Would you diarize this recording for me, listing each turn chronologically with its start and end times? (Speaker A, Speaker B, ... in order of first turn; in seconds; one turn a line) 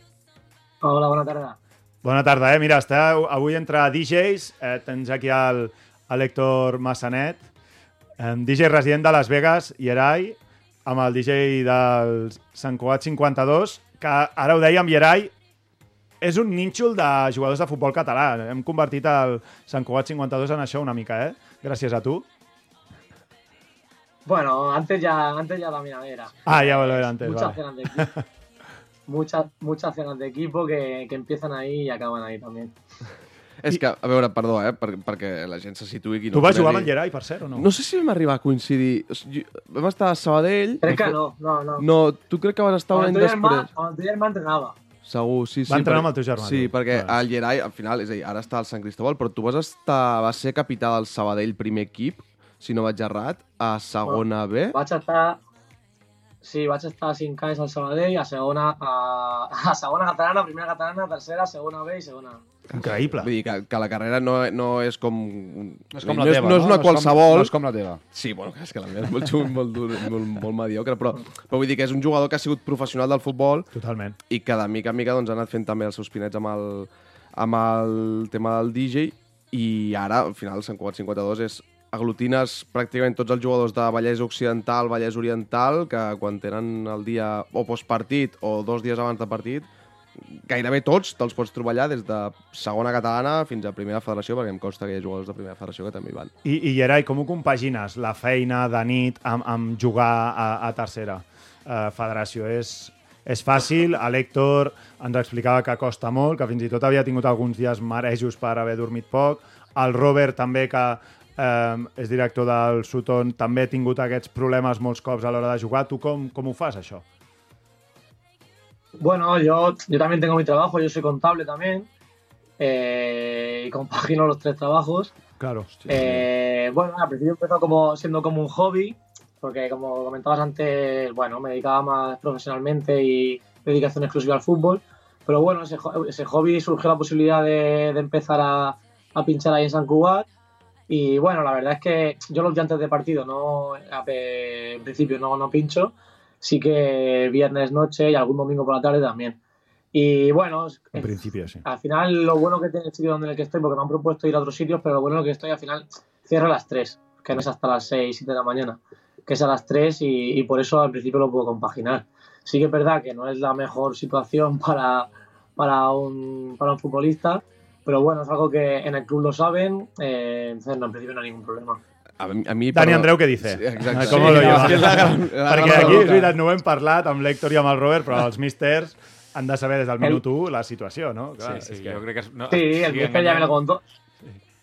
Speaker A: 0.8-1.6
Speaker B: 2.0-7.5
Speaker B: 8.2-15.3
Speaker B: 16.2-22.3
Speaker A: 24.3-28.1
Speaker B: 26.5-28.2
Speaker A: 29.1-32.8
Speaker C: 33.6-36.9
Speaker B: 36.3-37.7
Speaker C: 37.5-41.2
Speaker A: 40.8-41.9
Speaker C: 41.8-43.7
Speaker A: 42.9-44.8
Speaker C: 45.0-54.8
Speaker B: 45.7-47.2
Speaker A: 54.7-55.4
Speaker A: 56.4-62.4
Speaker C: 62.7-67.5
Speaker B: 62.7-63.3
Speaker D: 65.9-68.0
Speaker C: 68.1-73.7
Speaker B: 73.7-74.2
Speaker C: 74.3-89.7
Speaker C: 90.3-96.3
Speaker B: 96.4-117.0
Speaker A: 119.0-121.9
Speaker A: 122.6-125.1
Speaker B: 125.4-125.7
Speaker A: 125.9-140.3
Speaker A: 140.9-149.4
Speaker A: 149.9-171.8
Speaker B: 150.9-151.6
Speaker C: 172.2-176.4
Speaker B: 172.7-182.0
Speaker D: 174.1-175.1
Speaker E: 181.4-183.6
Speaker A: 182.5-183.8